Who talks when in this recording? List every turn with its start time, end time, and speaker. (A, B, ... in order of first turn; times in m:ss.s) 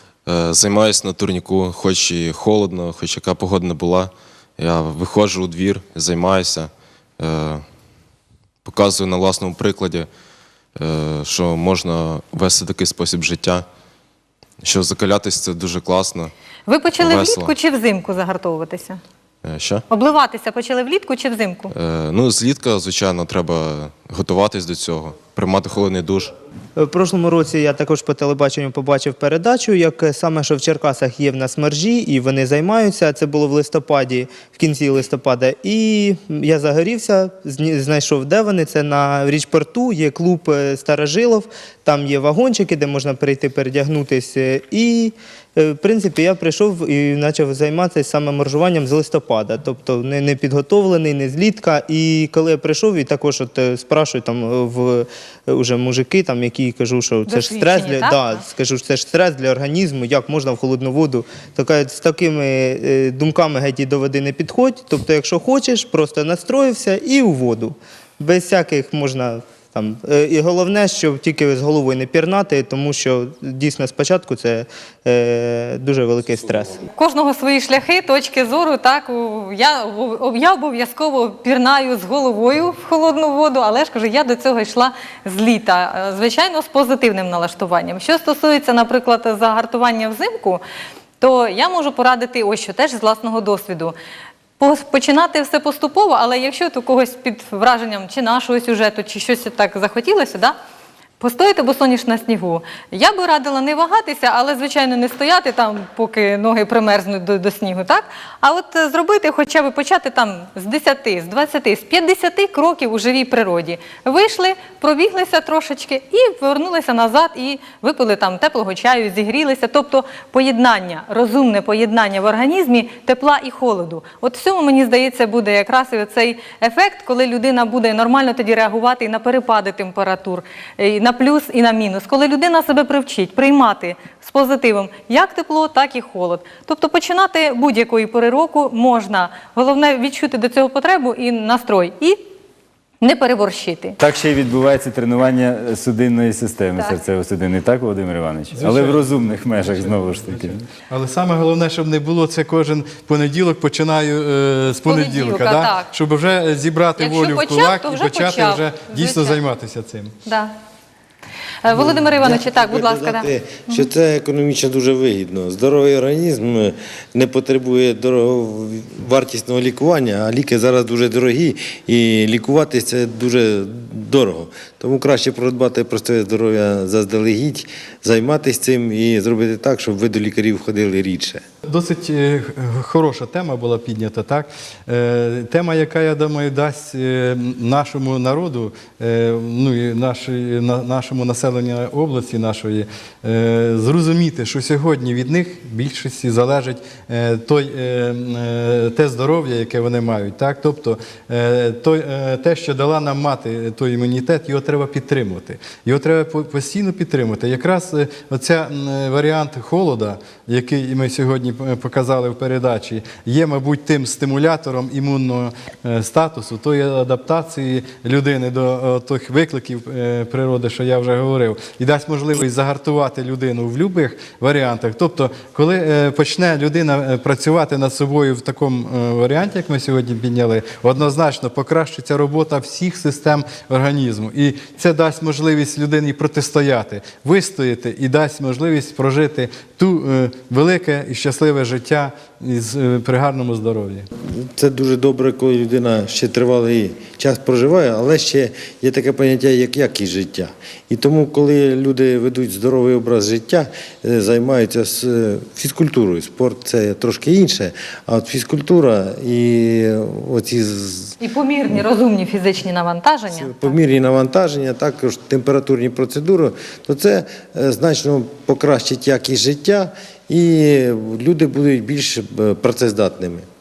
0:00.2-0:07.6 A
0:08.6-0:10.1 A
0:10.7-0:13.6 A
0:14.6-0:16.3 A
0:16.7-0:19.0 B
0:17.0-0:17.5 A
0:19.4-0:19.8 A
0:19.9-0:21.7 B
0:21.7-0:26.3 A
0:26.8-1:16.8 C
0:57.3-0:58.4 B
1:16.9-1:30.6 B
1:31.2-1:33.9 B
1:34.6-1:40.6 B
1:41.2-2:22.2 B
2:23.0-2:24.0 B
2:24.0-2:30.6 D
2:28.5-2:40.1 E
2:34.8-2:35.9 B
2:37.0-2:39.4 B
2:40.2-2:40.5 B
2:41.6-2:43.9 B
2:41.7-3:01.4 F
3:01.6-4:04.1 E
4:04.2-4:21.2 F
4:21.2-4:23.7 B
4:23.3-4:33.4 F